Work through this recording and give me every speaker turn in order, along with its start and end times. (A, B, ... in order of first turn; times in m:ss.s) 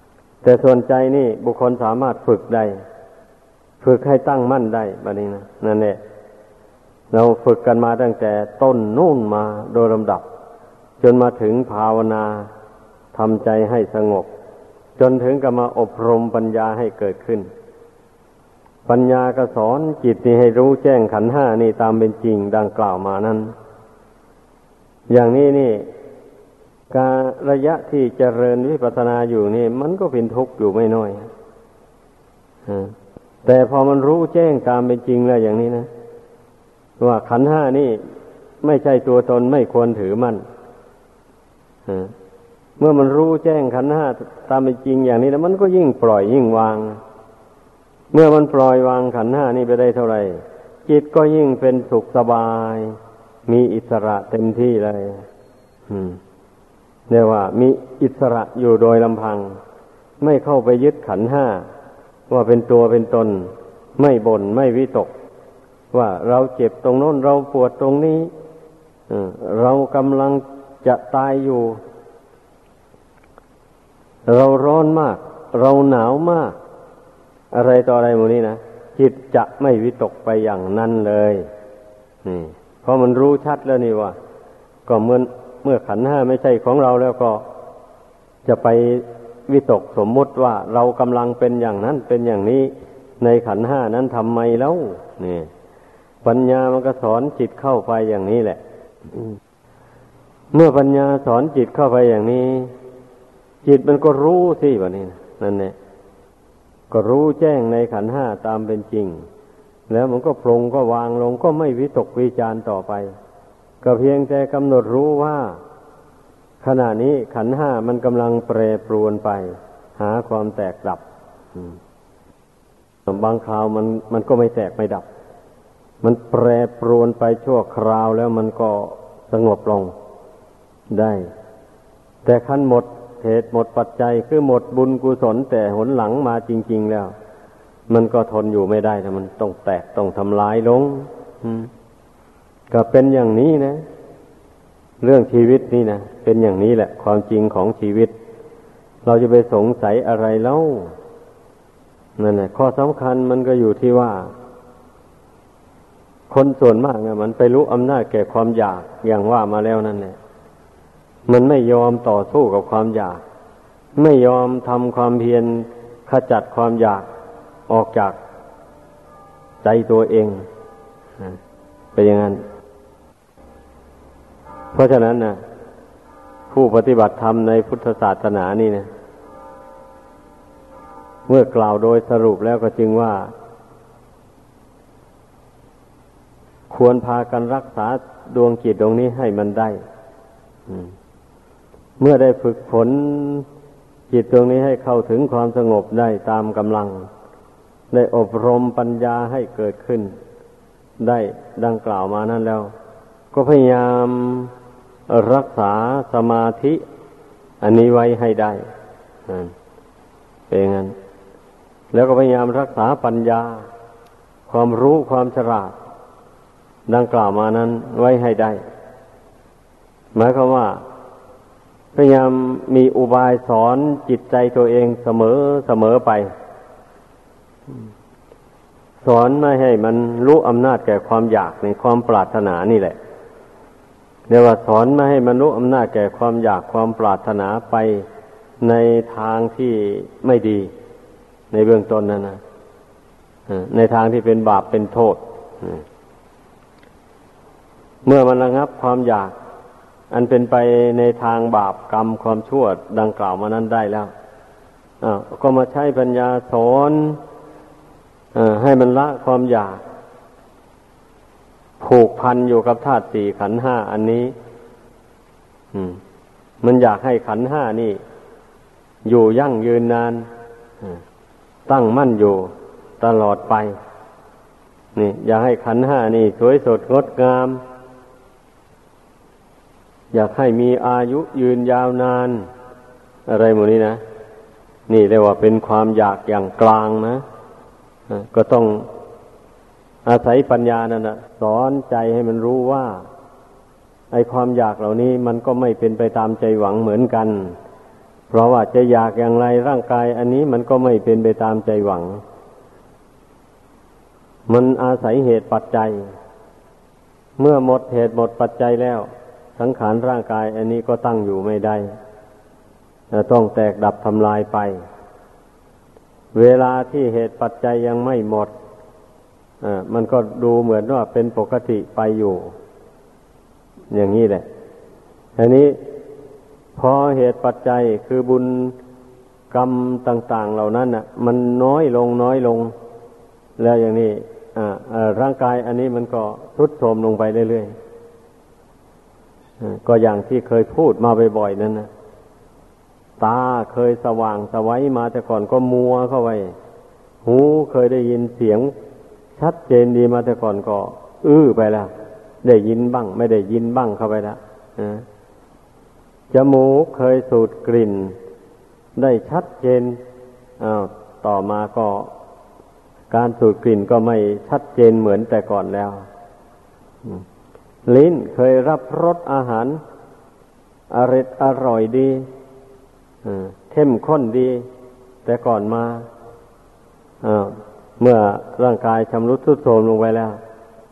0:00.4-0:02.8 A
0:03.8-0:06.0 A
0:07.1-0:10.2 A
0:11.0-0:12.5 A
0:13.1-0:14.3 A
0:15.0-0:17.5 A
0:18.9-0:23.5 A
0:25.1-0:25.9 A
0:26.9-0:31.3 A
0:32.7-0:35.9 A
0:37.0-0:38.0 A
0:38.6-0:40.4 A
0:41.9-0:42.1 A
0:42.8-0:47.0 A
0:48.1-0:55.2 A
0:55.9-0:56.2 A
0:57.1-0:59.6 A
1:00.2-1:01.7 A
1:02.3-1:05.1 A
1:05.9-1:08.3 A
1:09.1-1:11.8 A
1:14.3-1:16.6 A
1:17.5-1:21.5 A
1:22.2-1:24.2 A
1:24.9-1:27.4 A
1:28.4-1:35.5 A
1:36.2-1:38.6 A
1:40.5-1:42.7 A
1:43.6-1:45.7 A
1:46.9-1:49.2 A
1:49.9-1:53.1 A
1:53.8-1:55.6 A
1:56.6-2:01.0 A
2:03.0-2:05.0 A
2:06.0-2:09.9 A
2:10.9-2:11.3 A
2:12.2-2:17.1 A
2:17.9-2:21.7 A
2:22.7-2:23.8 A
2:25.0-2:28.1 A
2:29.0-2:30.9 A
2:32.2-2:34.3 A
2:36.3-2:40.2 A
2:41.3-2:43.2 A
2:44.0-2:47.1 A
2:47.7-2:48.2 A
2:49.6-2:50.4 A
2:51.9-2:52.4 A
2:54.7-2:55.4 A
2:56.5-2:58.9 A
3:01.3-3:03.3 A
3:06.7-3:09.8 A
3:12.0-3:13.4 A
3:14.1-3:17.1 A
3:17.9-3:20.1 A
3:21.0-3:22.7 A
3:23.3-3:24.5 A
3:25.1-3:26.8 A
3:27.6-3:28.6 A
3:29.3-3:29.5 A
3:30.5-3:30.9 A
3:31.9-3:33.7 A
3:34.5-3:35.8 A
3:36.9-3:38.6 A
3:40.1-3:40.8 A
3:41.9-3:46.3 A
3:49.0-3:53.0 A
3:54.3-3:58.1 A
3:58.6-4:00.7 A
4:01.5-4:02.4 A
4:03.5-4:05.8 A
4:08.0-4:09.3 A
4:10.1-4:14.1 A
4:15.0-4:17.2 A
4:18.3-4:19.8 A
4:21.8-4:24.3 A
4:25.7-4:26.0 A
4:26.6-4:28.0 A
4:29.0-4:30.3 A
4:31.7-4:33.8 A
4:35.0-4:37.6 A
4:40.1-4:42.5 A
4:43.3-4:44.0 A
4:44.9-4:47.2 A
4:48.1-4:48.9 A
4:50.0-4:53.0 A
4:54.1-4:57.6 A
4:58.3-5:02.2 A
5:04.5-5:06.1 A
5:07.4-5:11.9 A
5:13.1-5:14.8 A
5:16.3-5:18.5 A
5:19.6-5:22.5 A
5:23.9-5:24.4 A
5:25.4-5:25.8 A
5:26.8-5:28.8 A
5:29.5-5:32.7 A
5:33.6-5:37.7 A
5:39.6-5:41.9 A
5:43.2-5:46.5 A
5:47.2-5:48.7 A
5:49.4-5:51.9 A
5:52.4-5:55.0 A
5:56.3-5:58.2 A
5:59.0-6:00.0 A
6:00.6-6:02.1 A
6:03.1-6:06.1 A
6:07.8-6:09.8 A
6:10.9-6:12.3 A
6:13.2-6:14.6 A
6:15.2-6:16.1 A
6:17.2-6:20.4 A